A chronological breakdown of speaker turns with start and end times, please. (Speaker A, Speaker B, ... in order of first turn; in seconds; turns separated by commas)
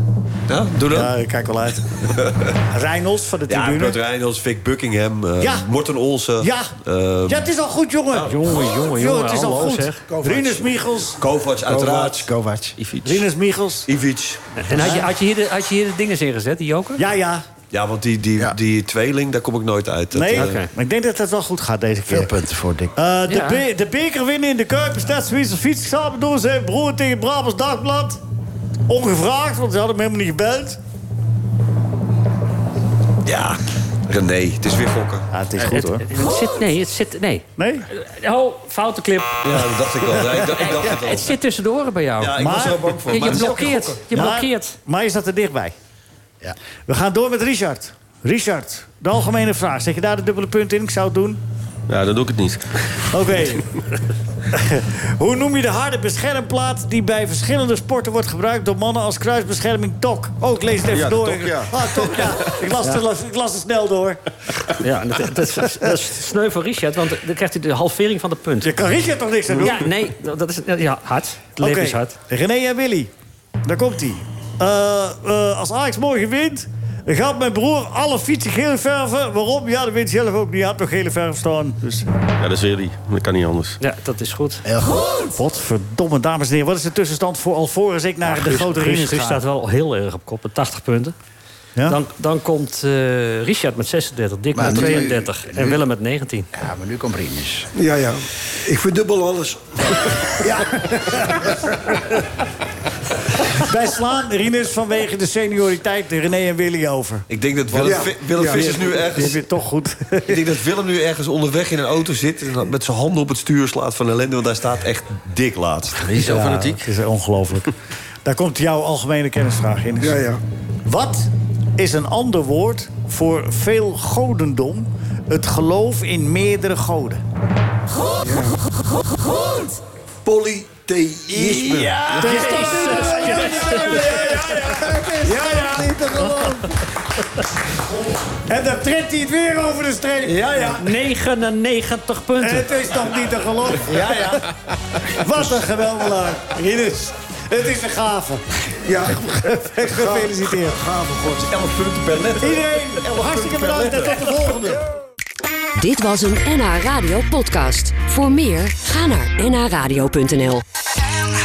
Speaker A: 0.5-1.1, Speaker B: 0.9-4.0, Speaker A: 2.1-2.5, Speaker A: 3.5-7.5, Speaker B: 5.4-5.7, Speaker B: 6.4-6.7, Speaker B: 7.2-11.2, Speaker C: 8.2-10.0, Speaker D: 10.1-10.4, Speaker E: 10.3-10.6, Speaker A: 11.2-12.2, Speaker D: 11.6-12.8, Speaker F: 12.8-13.2, Speaker B: 13.0-13.9, Speaker A: 13.9-14.6, Speaker C: 14.6-17.0, Speaker B: 14.7-15.1, Speaker B: 17.0-17.4, Speaker A: 17.7-20.6, Speaker B: 20.1-22.3, Speaker C: 20.3-20.7, Speaker D: 22.1-22.9, Speaker B: 22.9-28.2, Speaker C: 23.3-23.6, Speaker B: 28.9-30.8, Speaker A: 33.2-35.3, Speaker B: 35.3-36.0, Speaker C: 35.6-39.9, Speaker B: 37.6-37.9, Speaker A: 39.4-41.3, Speaker C: 40.5-42.4, Speaker A: 42.2-44.0, Speaker B: 42.4-43.5, Speaker C: 43.0-44.8, Speaker B: 44.1-45.7, Speaker B: 46.9-51.4, Speaker F: 51.9-53.0, Speaker B: 53.1-53.7, Speaker B: 54.5-64.2, Speaker F: 60.9-62.5, Speaker C: 64.8-68.7, Speaker B: 68.6-69.8, Speaker C: 69.6-72.2, Speaker B: 71.6-73.1, Speaker B: 73.6-82.1, Speaker F: 82.4-83.8, Speaker C: 83.8-84.6, Speaker D: 84.6-85.3, Speaker B: 85.3-89.4, Speaker C: 88.2-91.1, Speaker C: 91.8-96.5, Speaker D: 94.5-95.8, Speaker D: 96.5-97.7, Speaker E: 97.8-101.6, Speaker B: 103.5-107.2, Speaker A: 107.3-109.4, Speaker E: 107.7-109.1, Speaker B: 109.1-110.4, Speaker A: 110.3-116.0, Speaker F: 116.0-116.9, Speaker B: 116.1-117.7, Speaker B: 118.2-120.2, Speaker E: 120.0-120.4, Speaker B: 120.8-127.2, Speaker E: 128.2-128.6, Speaker E: 130.2-131.9, Speaker A: 131.3-132.5, Speaker C: 132.0-134.2, Speaker B: 132.1-136.8, Speaker E: 132.9-135.8, Speaker B: 138.5-140.9, Speaker C: 140.6-142.7, Speaker B: 142.4-144.4, Speaker B: 144.9-148.4, Speaker E: 148.8-151.5, Speaker B: 149.2-150.8, Speaker A: 151.3-154.3, Speaker B: 152.4-154.8, Speaker G: 155.8-160.6